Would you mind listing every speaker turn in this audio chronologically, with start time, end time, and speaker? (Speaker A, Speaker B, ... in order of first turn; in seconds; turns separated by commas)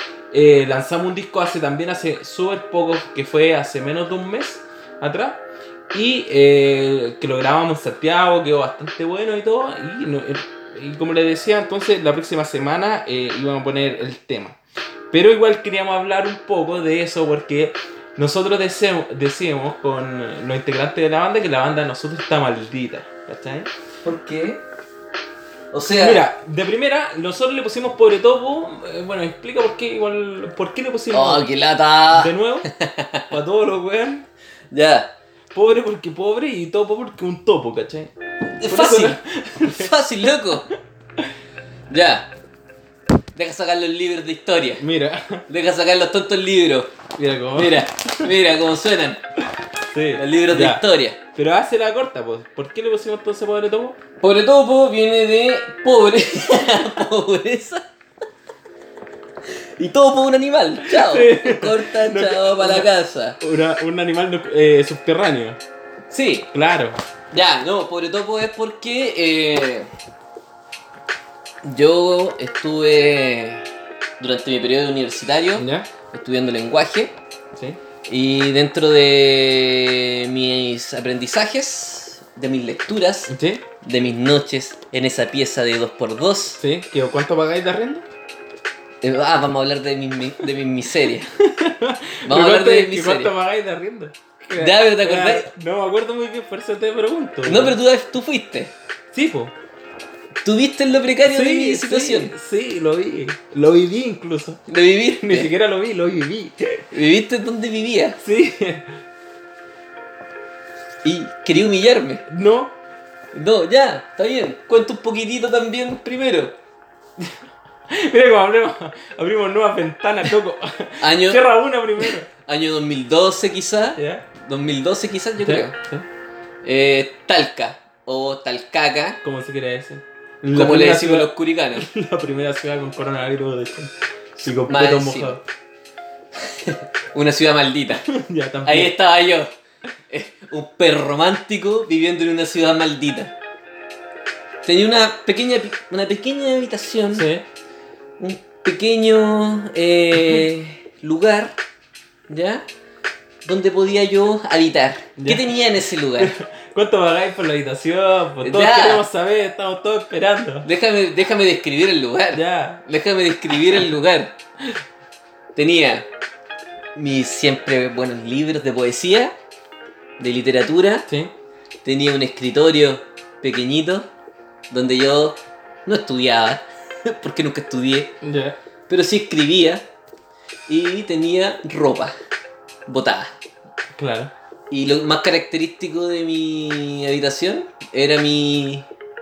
Speaker A: 0.3-14.6, Speaker A: 15.1-23.7, Speaker B: 24.0-24.6, Speaker B: 25.7-26.2, Speaker A: 25.9-31.5, Speaker B: 31.1-33.3, Speaker A: 32.1-32.7, Speaker A: 33.3-34.3, Speaker B: 34.7-35.1, Speaker A: 35.5-38.1, Speaker B: 38.5-40.7, Speaker A: 38.6-40.1, Speaker B: 41.9-42.3, Speaker B: 43.4-44.9, Speaker A: 44.8-45.5, Speaker B: 45.5-46.9, Speaker A: 47.1-48.4, Speaker B: 47.6-49.2, Speaker A: 49.8-54.0, Speaker B: 50.1-51.2, Speaker B: 54.2-57.8, Speaker B: 59.5-63.4, Speaker A: 60.8-65.6, Speaker B: 66.1-66.5, Speaker A: 66.5-67.0, Speaker B: 67.3-69.9, Speaker B: 71.6-77.2, Speaker A: 75.5-75.9, Speaker B: 78.1-86.6, Speaker A: 83.3-83.7, Speaker A: 86.6-88.1, Speaker B: 89.0-91.3, Speaker A: 91.4-97.8, Speaker B: 92.3-93.3, Speaker B: 94.6-95.5, Speaker B: 97.5-98.7, Speaker A: 99.1-99.5, Speaker B: 100.4-102.3, Speaker A: 101.2-106.9, Speaker B: 104.7-105.5, Speaker B: 106.9-108.2, Speaker A: 108.2-108.9, Speaker B: 111.0-112.2, Speaker A: 112.3-112.8, Speaker B: 113.3-116.5, Speaker A: 117.9-122.3, Speaker B: 121.0-121.4, Speaker B: 122.0-125.8, Speaker A: 124.0-124.3, Speaker A: 125.4-126.1, Speaker B: 126.6-129.2, Speaker A: 129.2-135.4, Speaker B: 130.5-131.9, Speaker B: 134.7-135.4, Speaker B: 136.4-138.1, Speaker A: 138.1-138.9, Speaker B: 138.7-139.5, Speaker B: 140.1-143.3, Speaker B: 144.7-147.3, Speaker A: 147.1-147.4, Speaker B: 148.2-151.6, Speaker B: 152.3-152.7, Speaker B: 153.4-156.3, Speaker A: 155.2-155.5, Speaker A: 156.2-160.7, Speaker B: 158.4-159.0, Speaker B: 160.6-164.3, Speaker A: 162.3-162.8, Speaker B: 165.6-166.1, Speaker B: 166.9-169.3, Speaker B: 170.2-171.1, Speaker A: 171.1-171.3, Speaker B: 171.8-174.1, Speaker B: 174.7-178.1, Speaker A: 178.2-178.6, Speaker B: 178.9-179.9, Speaker B: 180.7-182.1, Speaker B: 182.9-183.3, Speaker A: 183.9-184.3, Speaker B: 184.7-188.9